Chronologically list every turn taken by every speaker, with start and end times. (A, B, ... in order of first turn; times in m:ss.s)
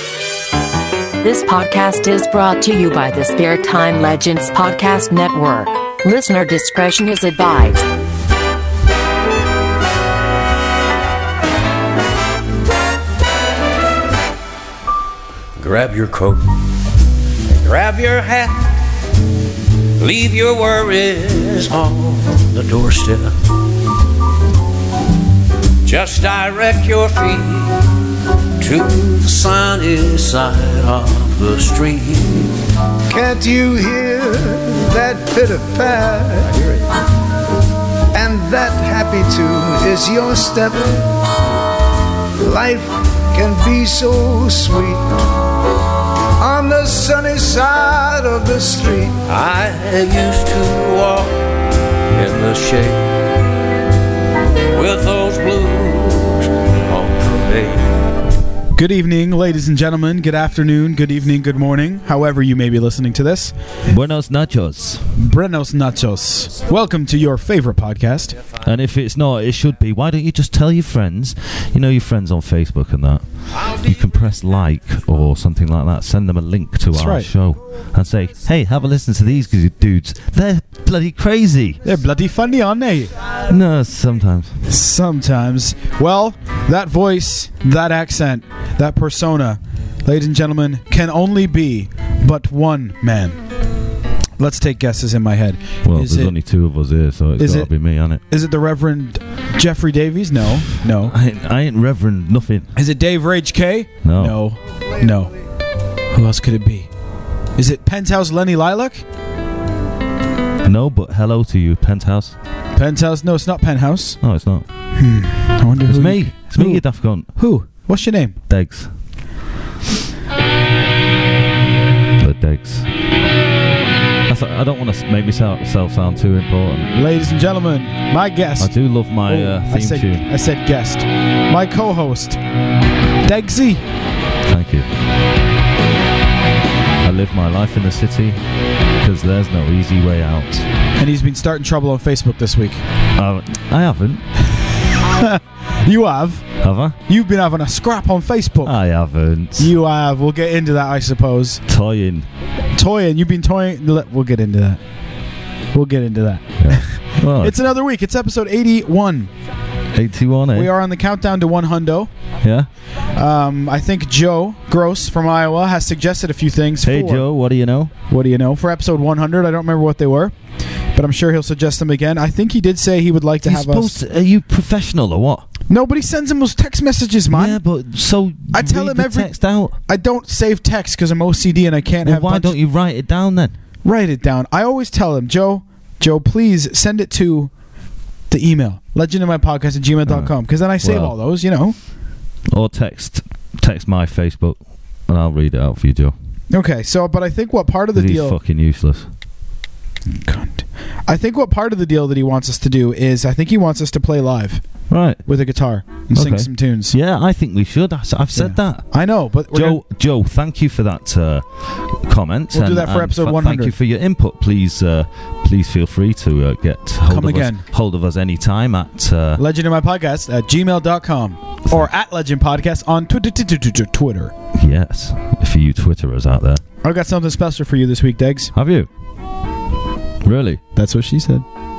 0:01.2-0:07.9 A
0:15.6-0:16.5 B
0:17.5-0:18.7 B
0:20.0-0:23.4 B
0:25.8-0:27.8 B
0:28.6-0:32.6 B
0:33.1-0:36.8 C
0:38.1-0:41.0 C
0:42.4-0:45.1 C
0:46.4-0:49.2 C
0:49.2-0:51.4 B
0:52.1-0:53.0 B
0:54.7-0:57.9 B
0:58.7-1:03.5 D
1:03.8-1:05.1 E
1:05.2-1:08.4 D
1:08.6-1:21.8 E
1:16.9-1:17.3 D
1:21.8-1:23.1 D
1:23.4-1:24.6 E
1:24.7-1:33.4 D
1:34.4-1:36.3 D
1:35.8-1:38.2 E
1:37.4-1:37.7 D
1:38.2-1:41.1 D
1:41.0-1:42.7 E
1:42.8-1:45.3 D
1:44.0-1:44.4 E
1:46.1-1:46.9 D
1:47.6-1:49.0 D
1:50.6-1:52.3 E
1:52.7-1:54.2 D
1:54.2-1:54.6 E
1:55.0-1:58.4 D
1:55.8-1:57.3 E
1:58.5-1:58.9 E
2:02.2-2:02.9 E
2:04.3-2:06.9 E
2:06.9-2:08.7 D
2:08.6-2:10.2 E
2:09.2-2:12.4 D
2:13.2-2:13.8 D
2:14.4-2:14.9 E
2:17.0-2:18.4 E
2:19.0-2:20.6 E
2:21.0-2:22.8 D
2:23.2-2:24.2 E
2:25.0-2:26.5 D
2:26.6-2:27.0 E
2:27.1-2:28.7 D
2:28.6-2:29.7 E
2:29.6-2:31.6 D
2:31.7-2:32.3 E
2:32.7-2:34.8 D
2:35.7-2:39.3 D
2:36.6-2:37.5 E
2:39.9-2:40.7 E
2:40.5-2:42.1 D
2:42.4-2:42.7 E
2:43.1-2:47.2 D
2:46.8-2:47.9 E
2:48.1-2:50.3 D
2:50.9-2:54.0 D
2:53.4-2:55.4 E
2:55.7-2:57.6 D
2:57.3-2:59.8 E
2:58.5-3:02.6 D
3:02.0-3:03.5 E
3:03.8-3:07.5 D
3:08.3-3:11.7 D
3:10.1-3:11.1 E
3:12.5-3:16.1 E
3:16.5-3:18.4 D
3:17.9-3:19.1 E
3:20.2-3:24.6 D
3:24.9-3:25.2 E
3:25.2-3:26.9 D
3:26.1-3:28.9 E
3:28.3-3:29.8 D
3:29.5-3:39.4 E
3:32.5-3:33.7 D
3:37.1-3:37.6 D
3:39.4-3:44.3 D
3:44.5-3:46.6 E
3:46.8-3:48.5 D
3:48.5-3:48.9 E
3:50.2-3:50.6 E
3:50.7-3:51.4 D